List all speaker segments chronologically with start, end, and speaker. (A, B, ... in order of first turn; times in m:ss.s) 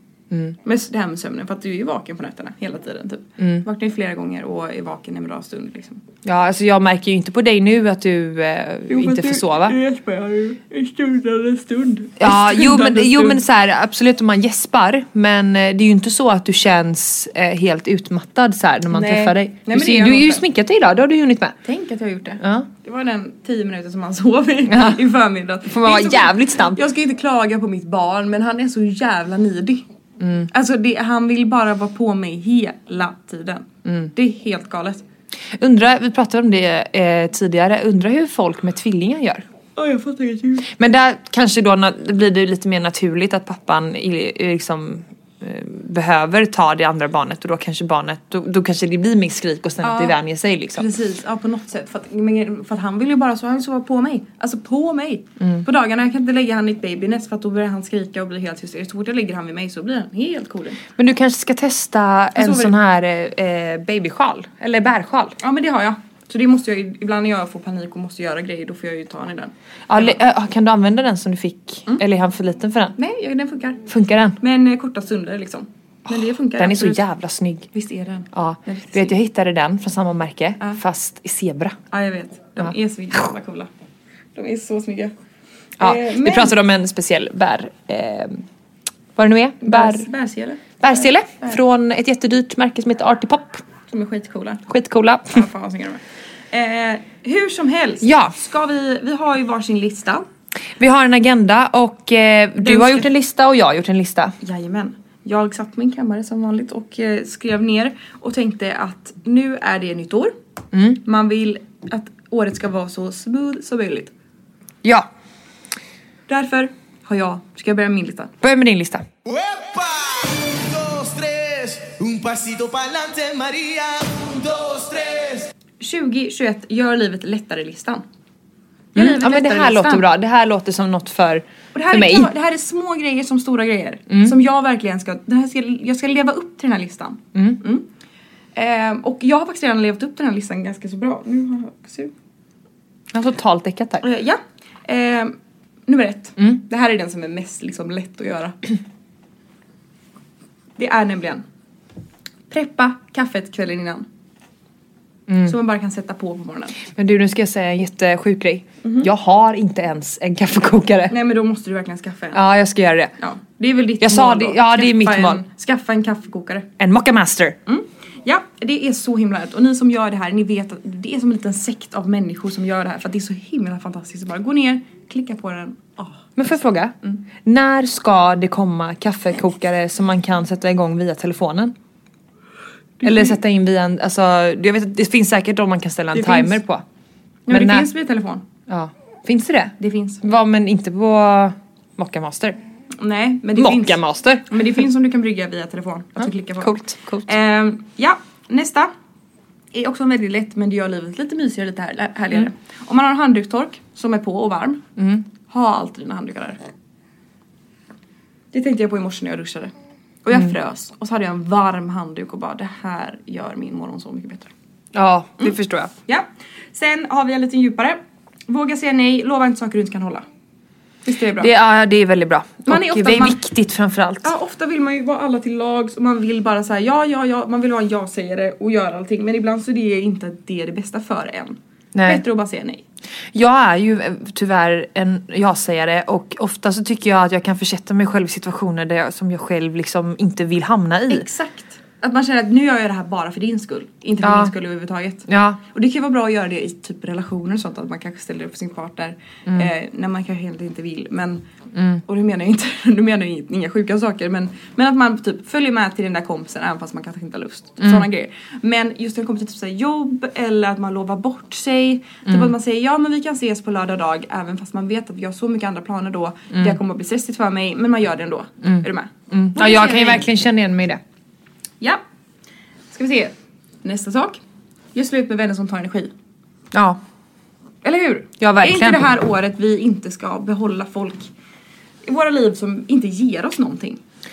0:00.3-0:00.6 A
0:00.6-0:06.0 B
0:03.4-0:03.6 A
0:06.2-0:09.8 A
0:08.9-0:13.4 B
0:12.2-0:21.6 A
0:18.9-0:20.4 B
0:21.6-0:29.8 B
0:22.4-0:22.7 A
0:24.7-0:25.0 A
0:25.6-0:26.8 A
0:30.2-0:30.5 A
0:30.5-0:35.0 B
0:33.8-0:34.1 A
0:35.6-0:39.4 A
0:39.8-0:40.7 B
0:40.7-0:50.9 A
0:49.8-0:50.2 B
0:50.7-1:00.8 B
1:01.0-1:05.4 A
1:02.4-1:02.8 B
1:05.4-1:10.2 B
1:09.9-1:13.0 A
1:13.0-1:13.8 B
1:13.9-1:14.4 A
1:14.4-1:17.0 B
1:16.1-1:17.7 A
1:17.7-1:19.2 B
1:18.3-1:21.8 A
1:21.9-1:23.7 B
1:24.4-1:25.1 B
1:25.8-1:28.4 A
1:25.8-1:26.6 B
1:29.2-1:30.1 A
1:29.6-1:31.6 B
1:30.8-1:33.6 A
1:33.9-1:34.6 B
1:34.7-1:35.4 A
1:35.3-1:40.3 B
1:38.0-1:38.3 A
1:40.8-1:44.3 A
1:42.6-1:43.1 B
1:44.4-1:50.3 B
1:50.7-1:51.0 A
1:51.0-1:54.1 B
1:56.3-1:58.3 B
1:58.4-1:59.1 A
1:59.2-2:05.5 C
2:05.8-2:08.0 B
2:09.0-2:10.0 B
2:09.0-2:12.3 A
2:11.7-2:17.8 B
2:14.1-2:14.4 A
2:18.6-2:22.1 B
2:23.1-2:24.0 A
2:24.0-2:25.4 B
2:25.9-2:28.6 B
2:30.8-2:31.4 B
2:32.5-2:34.1 B
2:35.3-2:35.6 A
2:35.4-2:36.8 B
2:36.8-2:41.1 A
2:38.8-2:39.1 B
2:41.1-2:42.4 B
2:42.3-2:43.1 A
2:43.2-2:46.7 B
2:44.0-2:45.4 A
2:46.8-2:47.6 A
2:47.7-2:56.3 B
2:56.4-3:01.8 A
3:03.0-3:03.4 B
3:03.0-3:06.8 A
3:06.1-3:06.6 B
3:07.5-3:08.4 B
3:07.5-3:07.9 A
3:08.7-3:12.6 A
3:09.8-3:10.2 B
3:13.0-3:16.8 B
3:13.6-3:14.5 A
3:16.2-3:17.3 A
3:17.3-3:18.9 B
3:19.7-3:24.8 B
3:25.0-3:25.2 A
3:25.5-3:26.6 B
3:28.5-3:29.7 B
3:30.2-3:34.5 B
3:35.0-3:35.9 A
3:36.1-3:40.2 B
3:41.0-3:41.5 B
3:41.4-3:44.3 A
3:42.7-3:43.4 B
3:44.2-3:52.8 B
3:51.9-3:52.2 A
3:53.3-4:01.3 A
4:01.1-4:11.4 B
4:04.2-4:04.5 A
4:05.3-4:05.6 A
4:11.8-4:12.0 A
4:12.1-4:30.3 B
4:17.8-4:18.1 A
4:22.3-4:22.5 A
4:28.6-4:31.0 A
4:32.9-4:34.4 B
4:34.9-4:36.1 B
4:36.7-4:37.0 A
4:37.8-4:41.3 B
4:38.4-4:39.2 A
4:42.0-4:44.0 B